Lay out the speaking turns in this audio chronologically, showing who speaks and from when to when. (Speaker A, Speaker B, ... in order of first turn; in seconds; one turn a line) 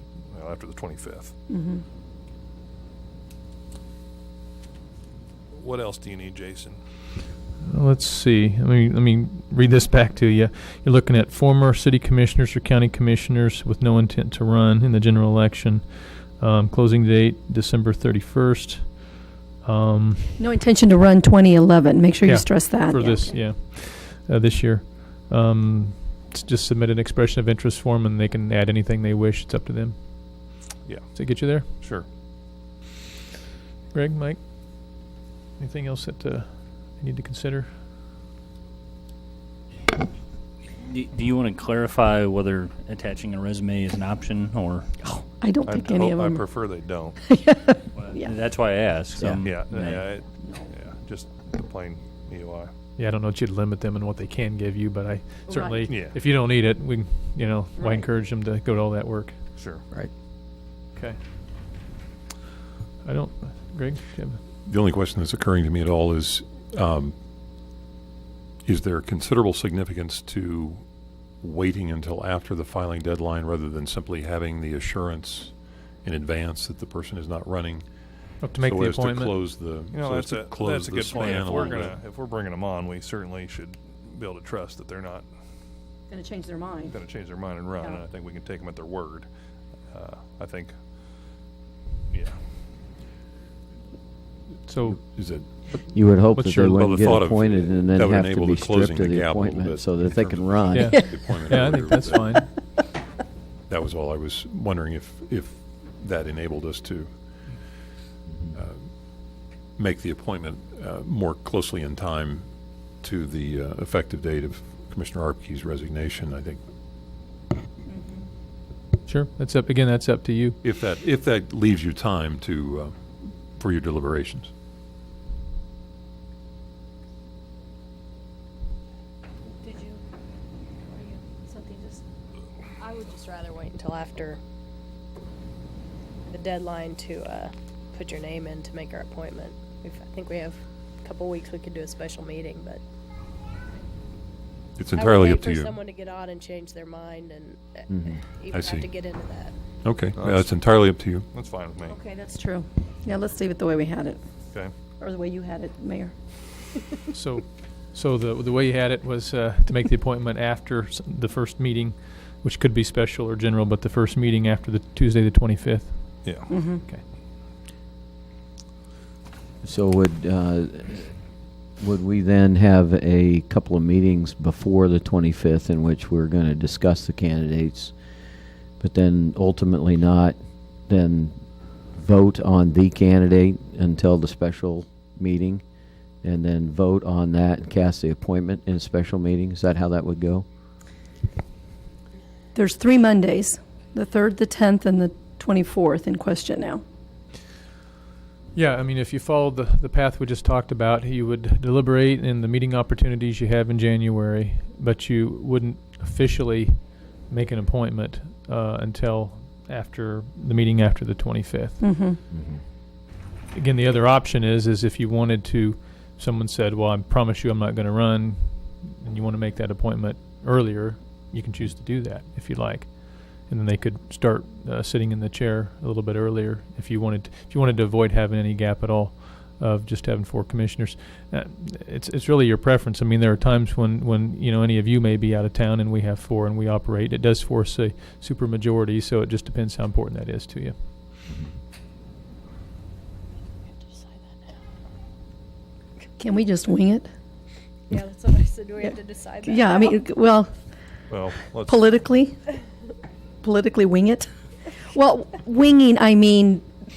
Speaker A: 0.3-1.4
Speaker B: 1.5-1.8
Speaker A: 5.5-6.8
Speaker C: 7.6-20.3
Speaker B: 20.4-23.3
Speaker C: 22.2-31.7
Speaker A: 30.8-31.1
Speaker A: 31.8-32.1
Speaker C: 33.9-35.0
Speaker C: 35.6-37.8
Speaker D: 40.9-44.9
Speaker B: 45.0-46.7
Speaker A: 45.6-47.2
Speaker B: 47.2-48.4
Speaker D: 47.9-50.1
Speaker E: 49.2-49.4
Speaker A: 49.4-52.7
Speaker B: 50.4-50.7
Speaker C: 53.0-59.5
Speaker B: 55.5-55.8
Speaker A: 55.9-56.2
Speaker B: 57.8-58.0
Speaker A: 59.5-59.8
Speaker C: 63.0-64.4
Speaker F: 64.7-67.2
Speaker F: 68.7-70.9
Speaker F: 71.4-82.0
Speaker C: 78.4-79.4
Speaker A: 79.9-85.3
Speaker B: 86.1-87.0
Speaker A: 86.9-89.3
Speaker A: 89.9-90.8
Speaker A: 92.1-92.4
Speaker C: 94.7-95.0
Speaker F: 94.9-96.0
Speaker E: 95.9-101.1
Speaker C: 96.3-96.9
Speaker F: 96.7-102.5
Speaker C: 100.7-102.5
Speaker G: 100.9-101.2
Speaker F: 103.7-107.6
Speaker F: 108.5-116.6
Speaker B: 117.9-118.2
Speaker C: 119.0-120.6
Speaker F: 120.6-124.5
Speaker G: 132.8-134.4
Speaker G: 136.3-142.8
Speaker F: 144.8-145.8
Speaker G: 144.9-149.6
Speaker E: 147.9-148.2
Speaker F: 148.5-148.9
Speaker F: 149.8-151.3
Speaker A: 150.2-150.6
Speaker A: 151.3-152.0
Speaker B: 151.9-154.2
Speaker B: 155.0-156.1
Speaker C: 157.1-167.0
Speaker A: 166.2-166.5
Speaker B: 166.5-166.8
Speaker E: 169.6-171.1
Speaker E: 171.8-178.0
Speaker E: 178.8-185.6
Speaker E: 186.2-190.4
Speaker B: 192.6-196.8
Speaker C: 198.5-212.0
Speaker B: 211.8-212.2
Speaker E: 212.3-212.6
Speaker C: 213.5-240.8
Speaker G: 243.8-244.5
Speaker B: 246.2-247.1
Speaker G: 247.9-250.0
Speaker B: 248.8-250.5
Speaker A: 251.1-251.8
Speaker B: 251.7-252.5
Speaker B: 253.4-254.3
Speaker B: 254.9-256.7